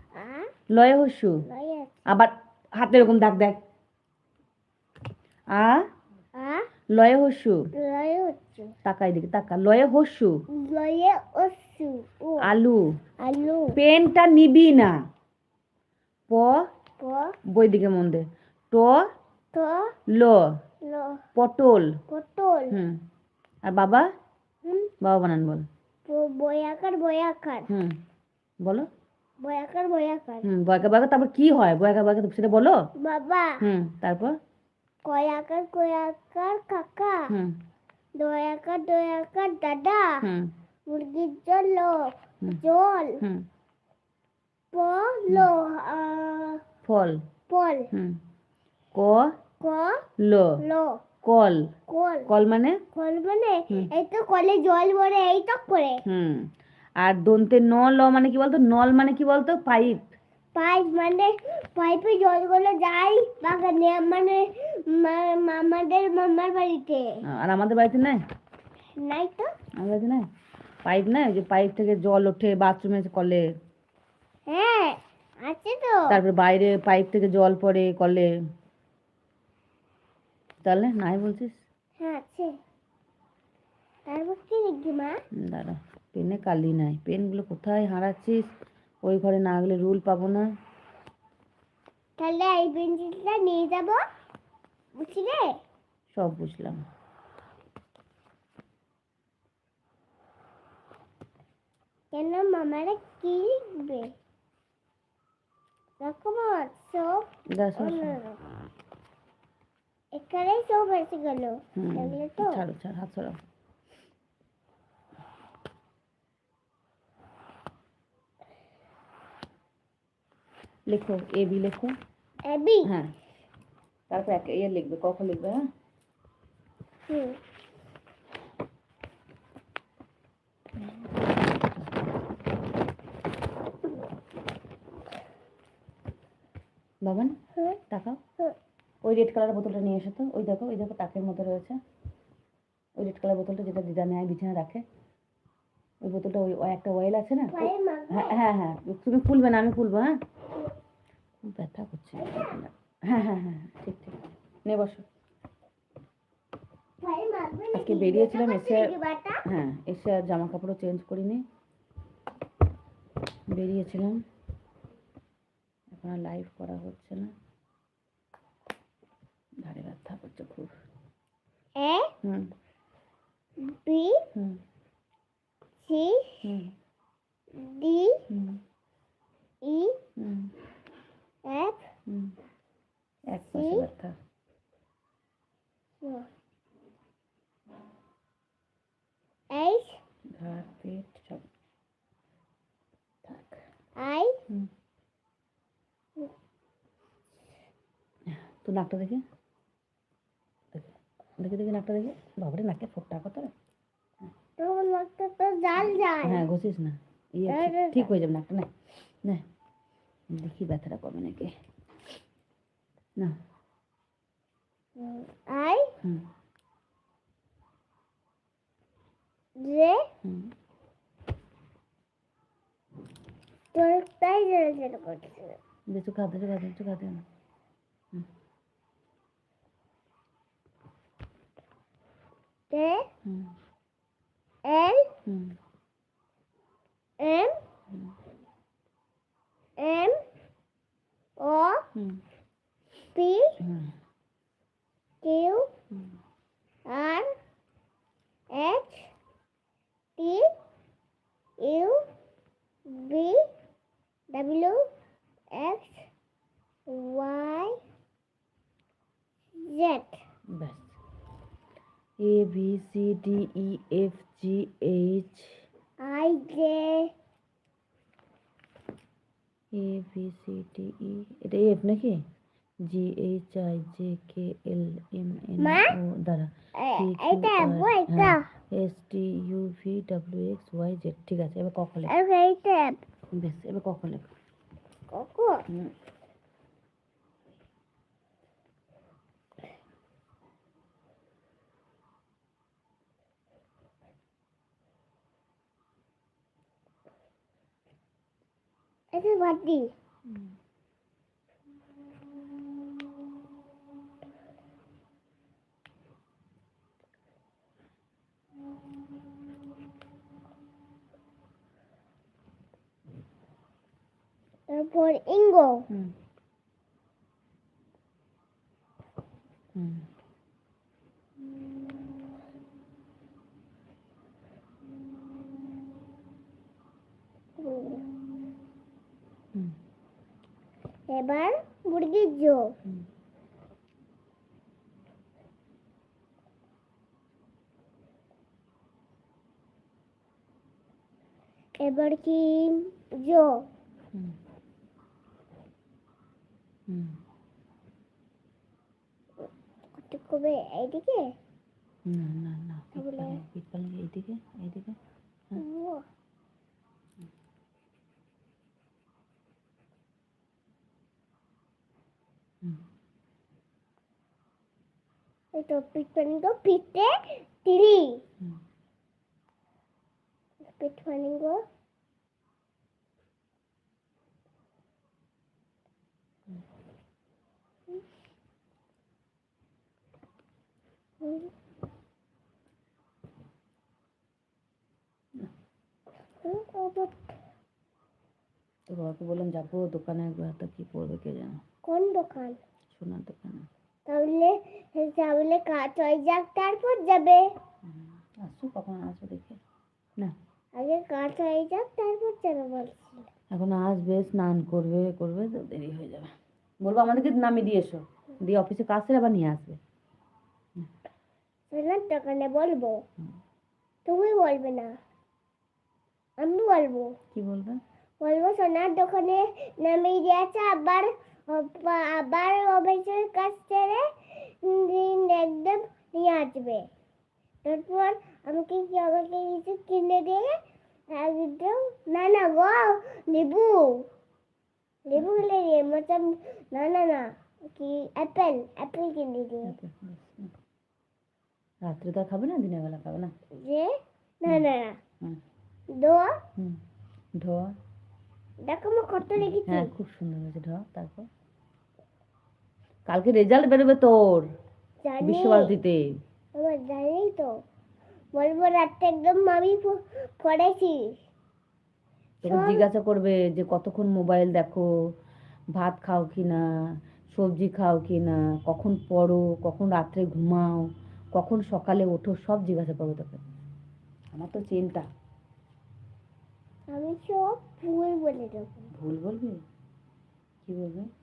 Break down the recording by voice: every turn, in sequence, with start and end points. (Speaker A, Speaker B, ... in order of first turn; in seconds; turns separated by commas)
Speaker A: 0.1-0.5, Speaker B: 0.7-1.4, Speaker A: 1.4-2.0, Speaker B: 2.0-3.6, Speaker B: 5.5-5.8, Speaker A: 6.3-6.7, Speaker B: 6.9-7.7, Speaker A: 7.7-8.8, Speaker B: 8.8-10.4, Speaker A: 10.5-12.5, Speaker B: 12.4-12.9, Speaker A: 13.2-13.8, Speaker B: 13.7-14.9, Speaker B: 16.3-16.7, Speaker A: 17.0-17.4, Speaker B: 17.4-19.1, Speaker A: 19.5-19.9, Speaker B: 20.1-20.4, Speaker A: 20.8-21.2, Speaker B: 21.3-22.0, Speaker A: 22.1-22.8, Speaker B: 22.7-23.0, Speaker B: 23.6-24.1, Speaker A: 24.6-24.9, Speaker B: 25.0-25.6, Speaker A: 26.1-27.7, Speaker B: 27.7-28.0, Speaker B: 28.6-28.9, Speaker A: 29.4-30.5, Speaker B: 30.4-32.9, Speaker A: 33.0-33.6, Speaker B: 33.6-34.4, Speaker A: 35.0-37.3, Speaker B: 37.3-37.6, Speaker A: 38.2-40.2, Speaker B: 40.2-40.5, Speaker A: 40.9-43.2, Speaker B: 43.2-43.5, Speaker A: 44.7-46.6, Speaker B: 46.8-47.2, Speaker A: 47.5-47.9, Speaker B: 47.9-48.2, Speaker B: 48.9-49.3, Speaker A: 49.6-50.0, Speaker B: 50.2-50.6, Speaker A: 50.6-51.0, Speaker B: 51.2-51.7, Speaker A: 51.9-52.3, Speaker B: 52.2-52.8, Speaker A: 52.9-56.0, Speaker B: 56.0-60.1, Speaker A: 60.5-67.2, Speaker B: 67.2-68.2, Speaker A: 69.0-69.5, Speaker B: 69.8-70.2, Speaker B: 70.8-73.5, Speaker A: 74.5-76.2, Speaker B: 76.1-78.3, Speaker B: 80.6-81.6, Speaker A: 82.0-82.5, Speaker A: 84.1-85.2, Speaker B: 85.3-90.5, Speaker A: 92.2-94.0, Speaker A: 95.0-95.6, Speaker B: 96.1-96.8, Speaker A: 102.1-104.1, Speaker A: 106.0-108.4, Speaker B: 107.5-108.2, Speaker A: 110.1-112.6, Speaker B: 111.8-113.4, Speaker B: 120.9-121.9, Speaker A: 122.4-122.9, Speaker B: 122.8-123.1, Speaker B: 124.1-125.6, Speaker A: 127.1-127.4, Speaker B: 130.8-131.9, Speaker B: 137.0-137.4, Speaker B: 137.9-138.2, Speaker B: 139.0-141.8, Speaker B: 143.0-144.8, Speaker B: 146.0-150.2, Speaker A: 147.5-148.4, Speaker B: 151.4-155.1, Speaker A: 152.2-152.6, Speaker A: 157.0-159.4, Speaker B: 157.7-158.9, Speaker B: 159.4-161.4, Speaker B: 163.5-164.2, Speaker B: 165.9-167.3, Speaker B: 169.6-170.7, Speaker A: 171.8-172.1, Speaker B: 172.2-172.5, Speaker A: 173.6-174.3, Speaker B: 174.3-174.6, Speaker A: 175.8-176.4, Speaker B: 176.4-176.7, Speaker A: 177.5-178.2, Speaker B: 178.3-178.6, Speaker A: 179.6-180.0, Speaker B: 180.2-180.5, Speaker A: 181.4-181.8, Speaker B: 182.1-182.3, Speaker B: 183.3-184.2, Speaker A: 183.4-183.9, Speaker A: 186.0-186.3, Speaker A: 189.5-190.0, Speaker B: 190.3-191.4, Speaker B: 193.2-193.6, Speaker A: 194.0-194.4, Speaker B: 198.3-199.2, Speaker B: 200.7-203.5, Speaker A: 204.6-206.4, Speaker B: 206.2-209.4, Speaker A: 207.5-208.0, Speaker B: 210.3-211.6, Speaker A: 215.0-215.9, Speaker B: 216.0-216.3, Speaker A: 219.6-220.1, Speaker B: 220.2-220.5, Speaker A: 223.7-225.6, Speaker B: 225.9-227.2, Speaker A: 232.7-233.1, Speaker B: 233.2-233.5, Speaker A: 234.6-235.1, Speaker B: 235.2-235.6, Speaker A: 237.2-237.6, Speaker A: 239.8-240.2, Speaker A: 241.4-241.9, Speaker B: 241.9-242.2, Speaker A: 243.1-243.6, Speaker B: 243.6-243.9, Speaker A: 245.2-245.7, Speaker A: 246.9-247.3, Speaker A: 248.5-249.1, Speaker A: 250.2-250.5, Speaker A: 251.6-252.0, Speaker A: 252.8-253.5, Speaker A: 254.3-254.8, Speaker A: 255.5-256.1, Speaker A: 256.9-257.8, Speaker A: 259.6-260.2, Speaker B: 260.5-260.9, Speaker B: 262.2-265.6, Speaker A: 266.0-267.1, Speaker B: 269.7-272.2, Speaker B: 272.9-282.1, Speaker A: 275.6-275.9, Speaker A: 276.8-278.5, Speaker A: 282.1-283.0, Speaker B: 283.3-284.3, Speaker A: 285.1-285.6, Speaker A: 299.1-299.9, Speaker A: 314.7-315.9, Speaker B: 319.7-320.1, Speaker A: 327.6-328.1, Speaker A: 331.1-332.7, Speaker A: 341.8-343.6, Speaker B: 346.9-347.2, Speaker A: 349.9-351.3, Speaker B: 352.1-355.0, Speaker A: 352.9-353.4, Speaker A: 355.5-356.1, Speaker A: 365.5-368.2, Speaker A: 370.7-371.6, Speaker A: 381.2-381.5, Speaker A: 386.4-387.3, Speaker B: 388.9-391.6, Speaker A: 391.8-392.6, Speaker B: 392.9-393.7, Speaker A: 394.1-397.5, Speaker B: 397.8-399.6, Speaker A: 400.8-403.3, Speaker B: 403.5-409.8, Speaker A: 411.7-413.0, Speaker A: 414.0-414.9, Speaker A: 416.4-417.1, Speaker B: 417.3-417.8, Speaker A: 418.2-426.9, Speaker A: 427.6-430.6, Speaker A: 431.1-434.1, Speaker A: 435.1-439.8, Speaker B: 439.6-440.5, Speaker B: 441.8-443.3, Speaker A: 443.5-445.0, Speaker A: 445.9-446.4, Speaker B: 447.4-447.8, Speaker A: 448.6-449.9, Speaker B: 449.5-451.3, Speaker B: 453.1-454.5, Speaker A: 455.0-455.7, Speaker B: 455.2-456.1, Speaker A: 456.5-457.5, Speaker A: 458.3-461.1, Speaker B: 462.4-464.9, Speaker A: 462.4-462.9, Speaker B: 465.7-466.6, Speaker B: 467.3-473.5, Speaker B: 474.3-475.1, Speaker A: 476.9-478.8, Speaker B: 478.9-479.6, Speaker B: 480.6-481.1